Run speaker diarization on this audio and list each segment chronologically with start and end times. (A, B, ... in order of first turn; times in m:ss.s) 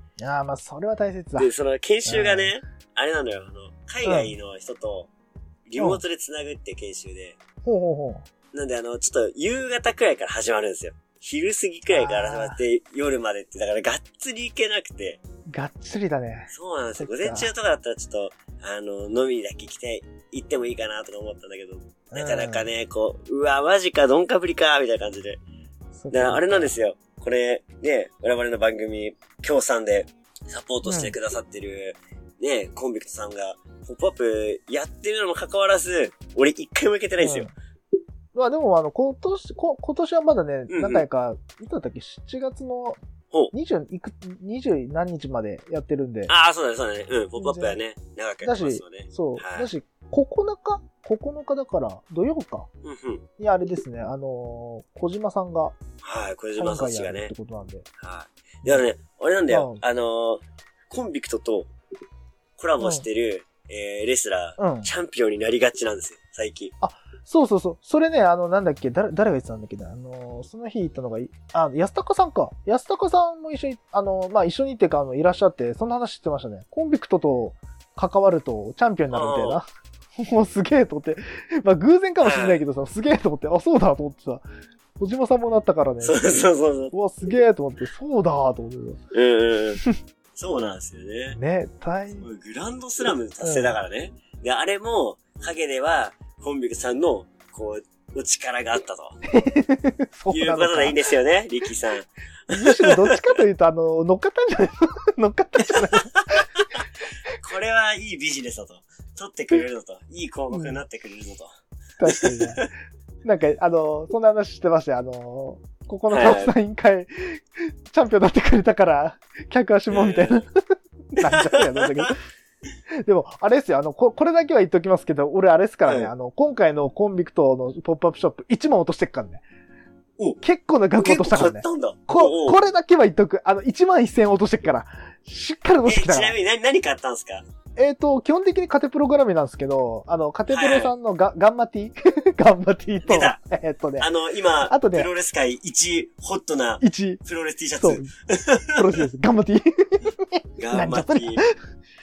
0:00.2-0:01.5 A
0:01.4-0:05.1 B
0:02.0-0:02.5 A
0:04.0-0:04.3 A
0:05.7-0:07.4 B
0:05.8-0:06.0 A
0:07.6-0:08.2 A
0:08.5-0:15.2 B
0:11.9-0:12.6 A
0:15.5-0:17.5 A
0:16.5-0:25.4 B
0:22.1-0:22.7 A
0:25.9-0:26.7 A
0:26.1-0:37.5 B
0:30.8-0:31.1 A
0:37.2-0:37.5 A
0:38.3-0:43.0 A
0:40.7-0:41.0 B
0:43.5-0:46.3 A
0:46.3-0:49.7 B
0:47.4-0:47.8 A
0:48.4-0:52.7 A
0:52.8-0:53.2 B
0:53.4-0:55.8 A
0:56.0-0:57.3 B
0:56.6-0:57.9 A
0:58.0-1:01.7 B
0:59.5-0:59.8 A
1:02.6-1:06.7 B
1:02.8-1:03.0 A
1:04.6-1:04.9 A
1:06.8-1:24.4 A
1:19.1-1:19.6 B
1:22.2-1:22.6 B
1:25.0-1:29.0 A
1:26.0-1:26.9 B
1:29.1-1:29.8 B
1:30.3-1:31.4 B
1:31.3-1:32.3 A
1:32.2-1:39.2 B
1:33.4-1:33.8 A
1:39.3-1:41.0 A
1:40.3-1:43.2 B
1:42.5-1:46.7 A
1:45.7-1:46.8 B
1:47.4-1:51.5 B
1:50.5-1:50.8 A
1:52.0-1:52.6 A
1:52.1-1:52.6 B
1:53.2-2:02.2 A
1:56.1-1:56.5 B
1:59.9-2:00.4 B
2:01.2-2:02.1 B
2:03.0-2:09.4 A
2:05.9-2:06.1 B
2:10.4-2:16.4 A
2:11.0-2:12.6 B
2:15.8-2:17.4 B
2:17.8-2:24.1 A
2:20.5-2:20.9 B
2:23.0-2:23.4 B
2:24.0-2:28.8 B
2:24.7-2:25.1 A
2:26.8-2:27.2 A
2:27.8-2:28.1 A
2:28.7-2:31.5 A
2:30.6-2:31.4 B